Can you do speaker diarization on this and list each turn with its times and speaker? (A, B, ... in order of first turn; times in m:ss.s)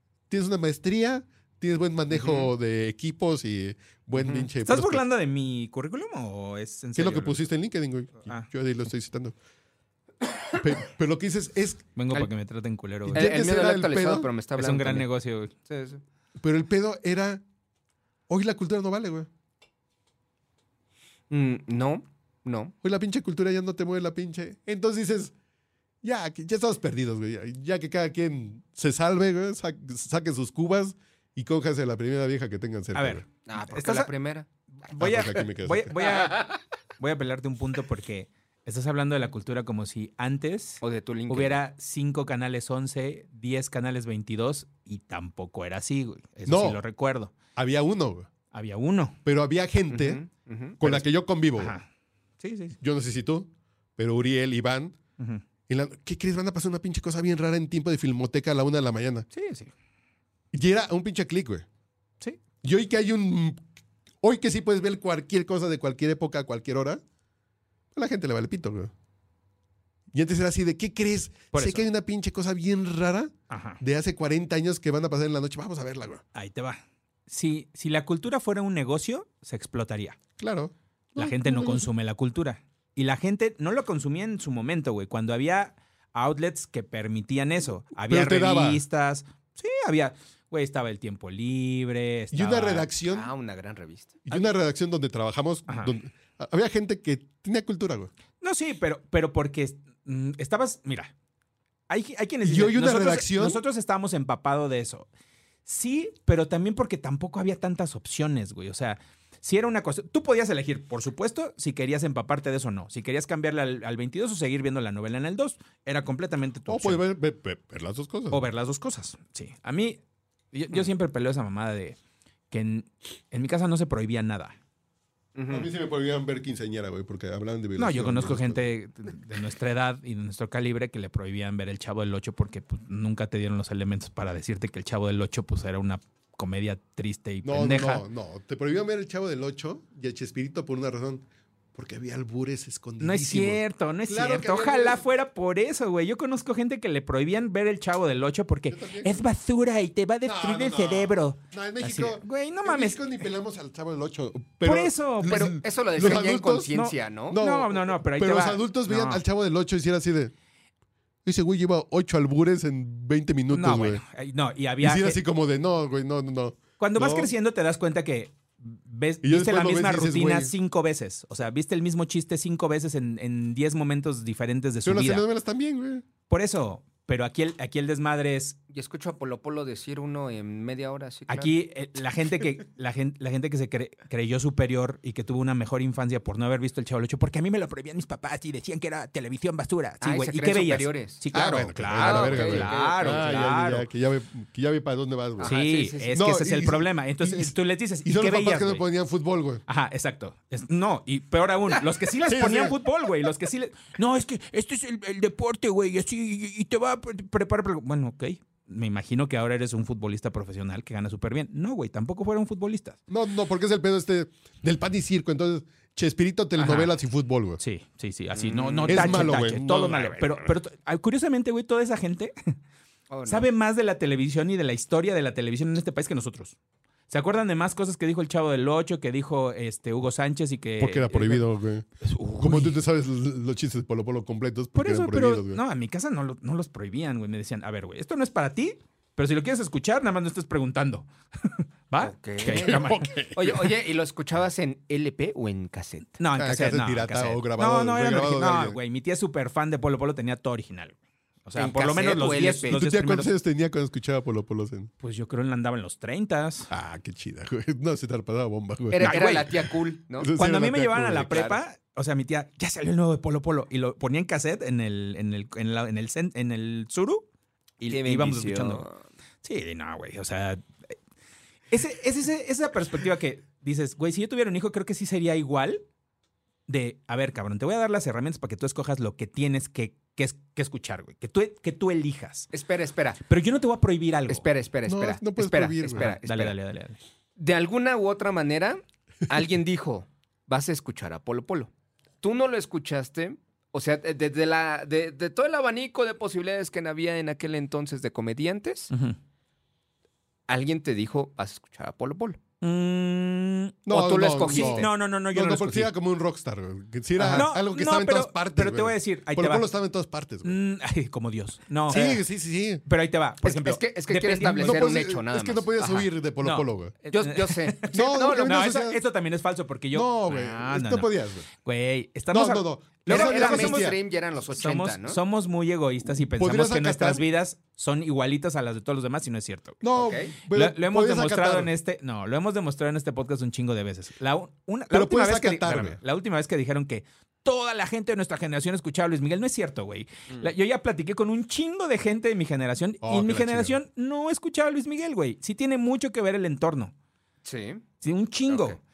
0:00.3-0:05.0 A
0:02.1-0:02.5 B
0:04.1-0:04.5 B
0:04.6-0:07.4 C
0:07.0-0:09.3 A
0:10.5-0:11.8 A
0:12.0-0:13.3 C
0:13.1-0:14.3 A
0:13.1-0:15.1 B
0:14.6-0:15.5 C
0:15.7-0:16.0 B
0:16.4-0:17.4 A
0:18.3-0:19.3 A
0:21.3-0:22.7 B
0:22.8-0:25.3 A
0:26.0-0:33.2 A
0:32.9-0:34.1 C
0:33.4-0:34.5 B
0:34.8-0:47.3 C
0:35.0-0:35.9 A
0:36.0-0:36.5 B
0:40.8-0:41.6 B
0:46.4-0:46.8 A
0:47.6-0:48.3 A
0:48.5-0:49.2 C
0:49.2-0:50.2 A
0:49.9-0:50.8 B
0:50.8-0:51.8 A
0:51.6-0:51.8 C
0:52.4-0:52.8 C
0:52.8-0:55.0 A
0:55.2-0:55.4 C
0:55.7-0:59.2 A
0:59.3-0:59.7 C
1:00.5-1:01.6 A
1:02.6-1:03.6 A
1:04.2-1:07.0 A
1:07.9-1:08.9 A
1:10.1-1:16.2 A
1:11.5-1:11.8 C
1:13.5-1:13.8 C
1:16.3-1:20.2 C
1:20.4-1:21.9 A
1:21.2-1:32.9 C
1:28.1-1:28.8 A
1:32.3-1:33.3 A
1:33.1-1:34.2 B
1:34.2-1:38.1 A
1:35.7-1:35.9 C
1:38.4-1:41.1 C
1:41.9-1:45.1 C
1:42.4-1:43.6 A
1:45.6-1:57.0 C
1:56.7-1:58.4 A
1:58.3-2:00.0 C
2:00.5-2:02.0 C
2:02.5-2:04.6 C
2:05.3-2:05.7 B
2:05.5-2:08.6 A
2:07.8-2:18.0 C
2:17.4-2:25.0 A
2:23.0-2:33.2 C
2:28.7-2:29.2 A
2:30.2-2:36.7 A
2:34.6-2:35.6 C
2:35.2-2:37.4 B
2:36.7-2:39.2 C
2:37.3-2:40.3 A
2:41.2-2:44.0 A
2:43.5-2:45.2 C
2:44.8-2:47.3 A
2:46.8-2:55.2 C
2:49.2-2:50.5 A
2:54.8-2:56.0 A
2:56.3-2:58.6 C
2:58.7-3:01.5 B
3:01.3-3:13.9 C
3:10.0-3:11.2 B
3:11.3-3:15.6 A
3:11.9-3:13.4 B
3:15.4-3:16.1 B
3:15.4-3:18.8 C
3:16.1-3:19.6 A
3:19.7-3:33.0 C
3:22.2-3:22.8 A
3:33.1-3:37.6 A
3:36.6-3:36.9 C
3:37.6-3:42.6 C
3:38.3-3:39.4 B
3:38.9-3:40.5 A
3:43.1-3:43.5 B
3:43.3-3:46.6 C
3:47.1-3:51.5 C
3:50.8-3:51.9 A
3:52.0-3:52.8 C
3:52.4-3:55.6 A
3:54.7-4:03.1 C
4:02.0-4:06.1 B
4:02.4-4:03.8 A
4:06.2-4:13.3 C
4:06.4-4:08.8 A
4:11.5-4:12.8 B
4:12.7-4:14.9 A
4:15.0-4:16.7 C
4:16.7-4:21.5 A
4:18.9-4:20.3 B
4:19.0-4:19.5 C
4:20.3-4:27.2 C
4:21.2-4:21.6 B
4:27.8-4:28.8 C
4:27.9-4:29.0 B
4:29.4-4:30.9 C
4:31.7-4:35.8 C
4:36.7-4:42.5 C
4:42.5-4:43.2 B
4:43.2-4:44.4 C
4:44.3-4:46.5 B
4:44.9-4:46.1 A
4:45.9-4:47.0 C
4:47.4-4:51.7 B
4:52.2-4:58.9 B
4:58.9-4:59.2 C
5:00.5-5:02.4 B
5:02.6-5:03.8 C
5:03.8-5:10.6 A
5:03.9-5:04.9 B
5:04.4-5:05.9 C
5:07.2-5:07.5 B
5:07.3-5:09.7 C
5:10.4-5:12.2 C
5:11.9-5:12.8 A
5:12.8-5:14.9 C
5:13.4-5:16.1 B
5:14.6-5:17.0 A
5:16.4-5:21.1 C
5:17.1-5:18.6 B
5:17.9-5:19.0 A
5:19.9-5:21.4 A
5:21.6-5:23.9 C
5:22.3-5:24.0 A
5:23.1-5:25.2 B
5:24.5-5:29.8 C
5:26.1-5:27.2 A
5:29.8-5:31.7 A
5:30.0-5:30.3 B
5:30.5-5:46.9 C
5:34.9-5:36.0 A
5:43.0-5:43.8 A
5:47.4-5:47.8 B
5:48.0-5:48.8 C
5:48.5-5:48.8 B